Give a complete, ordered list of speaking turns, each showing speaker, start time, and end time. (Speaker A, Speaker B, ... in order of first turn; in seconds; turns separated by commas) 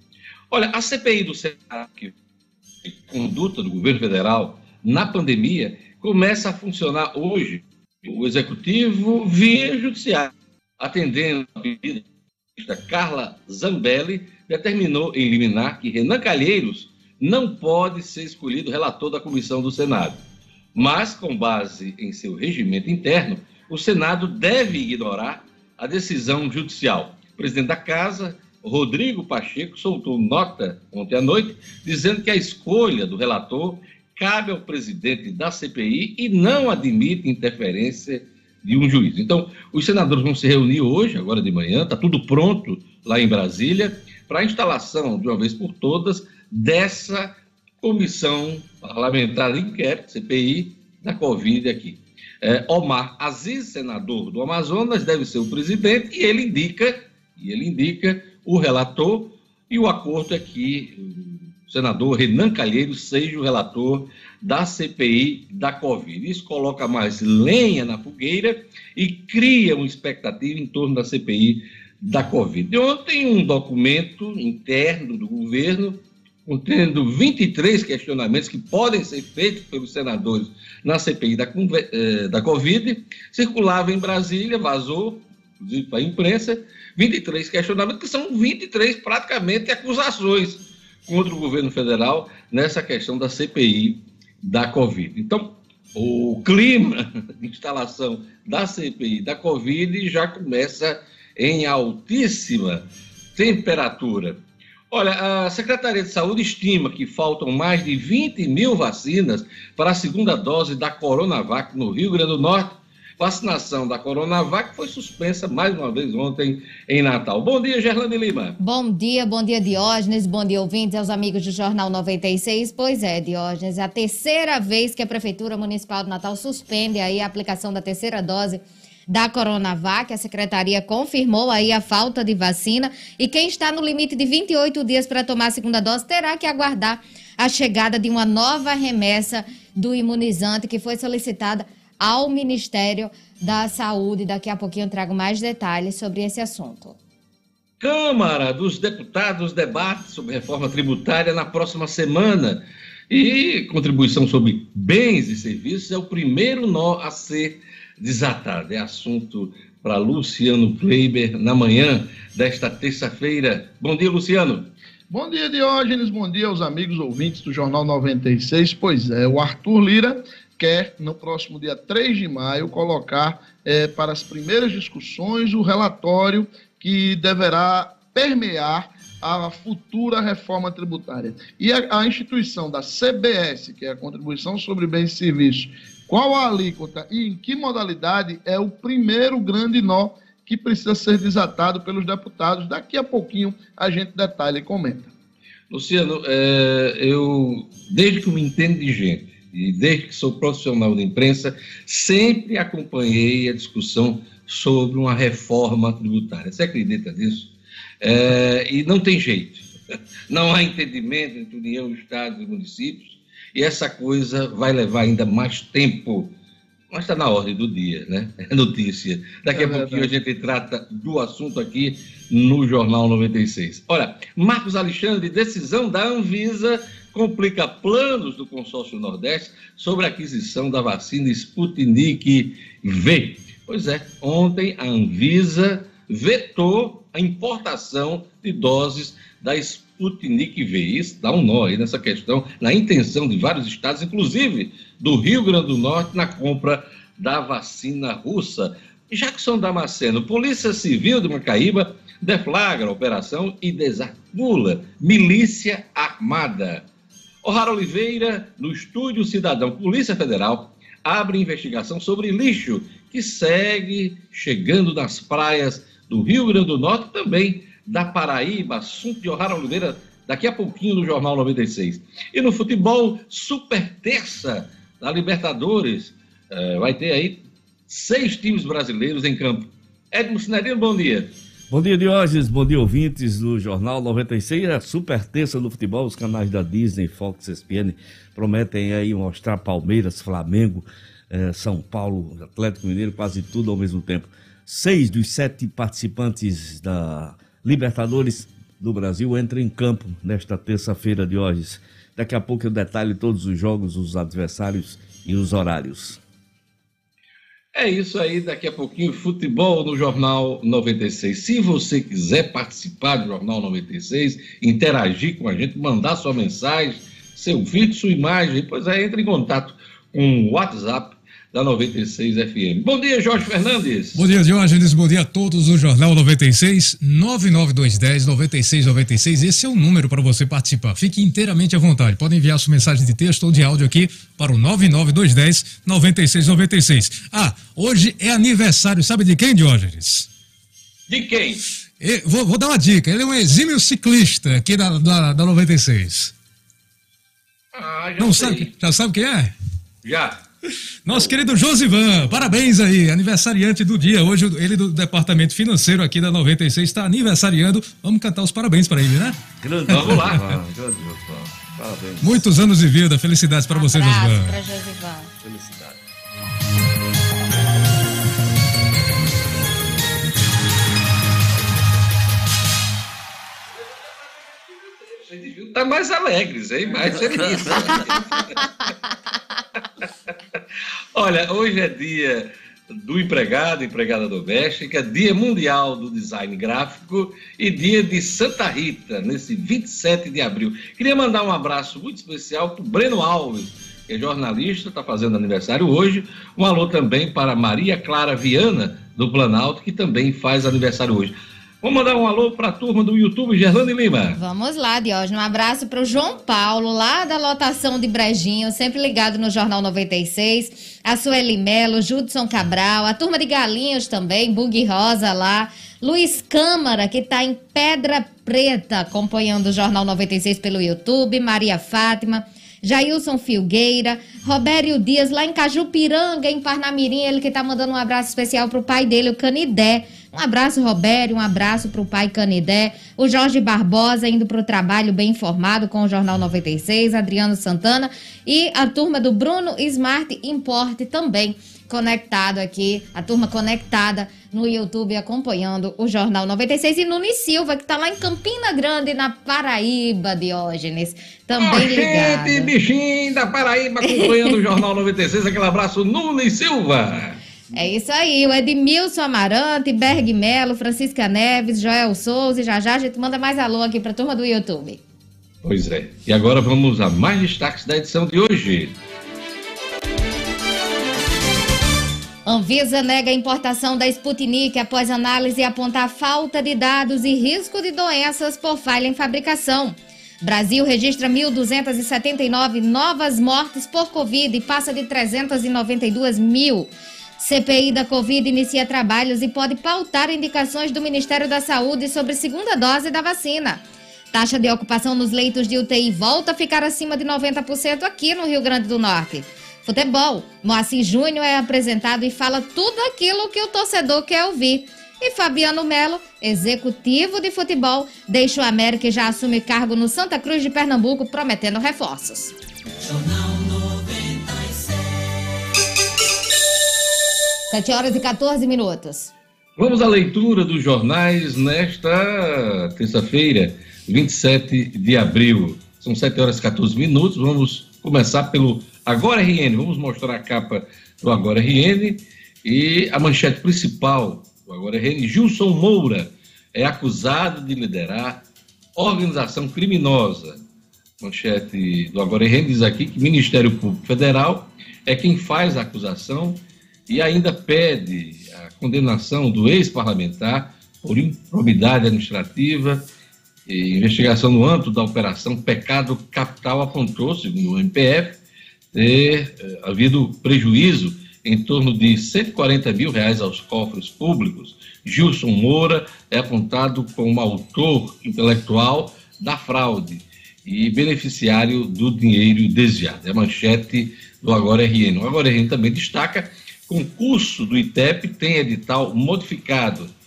Speaker A: 0.5-2.1, Speaker A: 2.8-12.0, Speaker A: 12.6-20.2, Speaker A: 20.7-118.6, Speaker B: 118.6-147.0, Speaker A: 147.8-164.7, Speaker C: 165.1-195.1, Speaker A: 195.7-207.5, Speaker A: 208.0-209.7, Speaker A: 210.3-216.3, Speaker A: 216.9-256.8, Speaker C: 219.5-220.1, Speaker A: 257.4-281.3, Speaker D: 281.7-306.2, Speaker A: 307.7-324.2, Speaker E: 324.1-340.3, Speaker A: 341.1-341.6, Speaker E: 342.0-346.3, Speaker A: 347.7-348.7, Speaker E: 348.2-349.5, Speaker A: 350.0-350.4, Speaker E: 351.0-359.4, Speaker D: 351.1-351.4, Speaker D: 359.6-362.5, Speaker A: 359.9-360.4, Speaker E: 359.9-360.4, Speaker E: 362.2-364.5, Speaker B: 363.7-365.3, Speaker D: 365.4-366.0, Speaker A: 373.9-378.9, Speaker D: 377.4-377.9, Speaker A: 381.1-404.4, Speaker B: 404.4-452.7, Speaker A: 451.6-457.4, Speaker B: 454.0-454.6, Speaker B: 457.7-465.0, Speaker A: 465.6-468.9, Speaker B: 472.4-493.8, Speaker B: 494.3-512.5, Speaker B: 517.7-519.3, Speaker A: 519.8-538.4, Speaker A: 539.0-540.6, Speaker A: 541.2-553.1, Speaker A: 553.7-558.4, Speaker A: 558.9-580.1